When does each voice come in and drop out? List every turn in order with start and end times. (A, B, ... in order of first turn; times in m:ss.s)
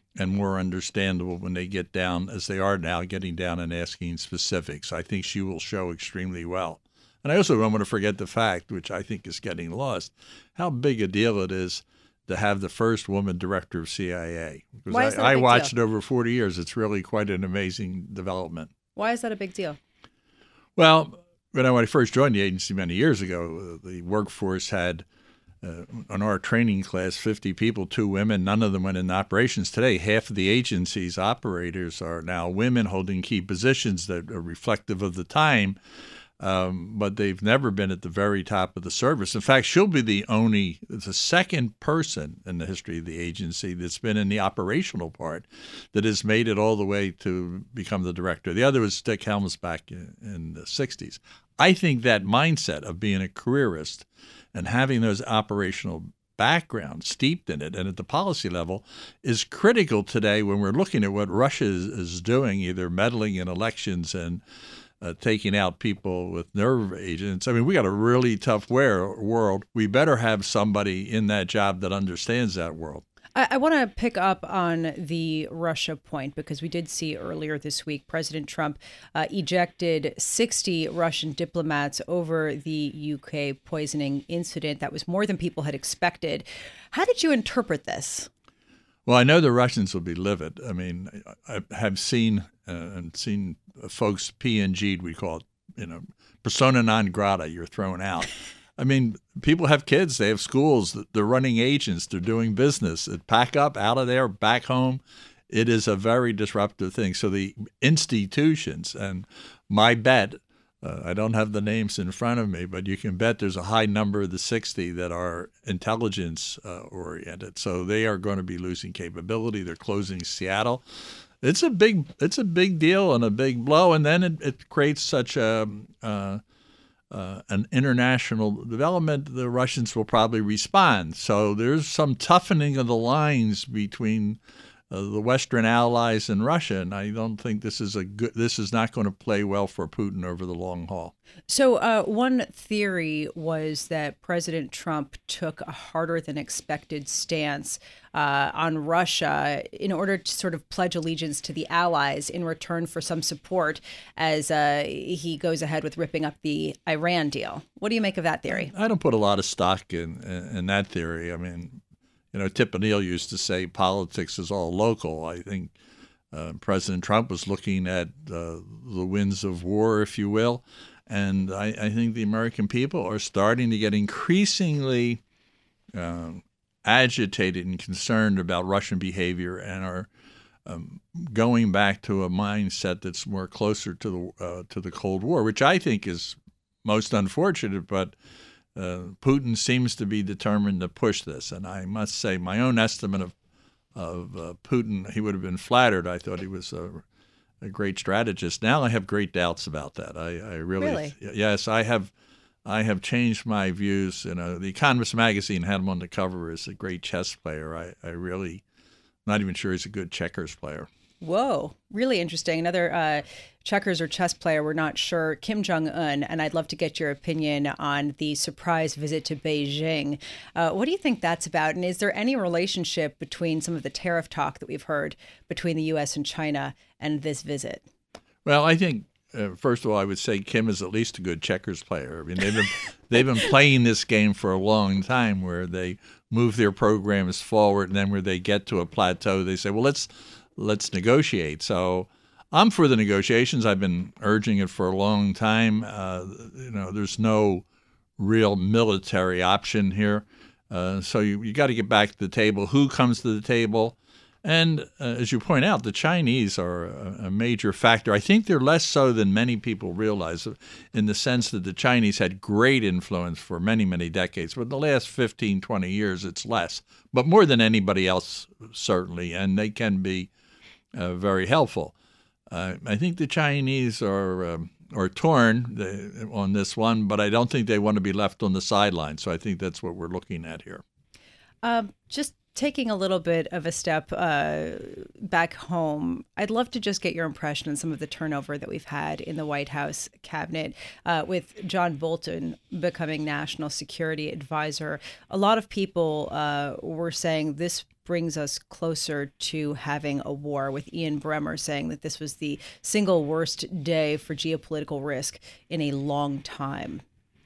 0:00.2-0:18.7 A
0:14.9-0:15.7 B
0:19.0-0:19.8 B
0:20.8-0:25.0 A
0:25.6-0:35.8 A
0:36.4-1:04.4 A
1:05.0-1:13.0 A
1:13.3-1:28.3 B
1:29.0-2:00.8 A
2:01.4-2:06.4 A
2:07.1-2:14.4 A
2:14.9-2:21.1 A
2:21.5-2:38.7 B
2:38.5-2:41.8 A
2:42.3-2:45.7 A
2:46.3-2:55.2 A
2:55.9-3:00.1 A
3:00.6-3:08.1 A
3:08.7-3:13.3 A
3:14.0-3:17.0 A
3:17.6-3:22.1 A
3:20.8-3:21.1 B
3:22.6-3:28.6 A
3:29.2-3:30.9 A
3:31.2-3:47.8 B
3:48.4-4:07.6 A
4:08.2-4:30.3 A
4:30.9-4:31.9 A
4:32.5-4:40.8 A
4:41.6-5:07.0 B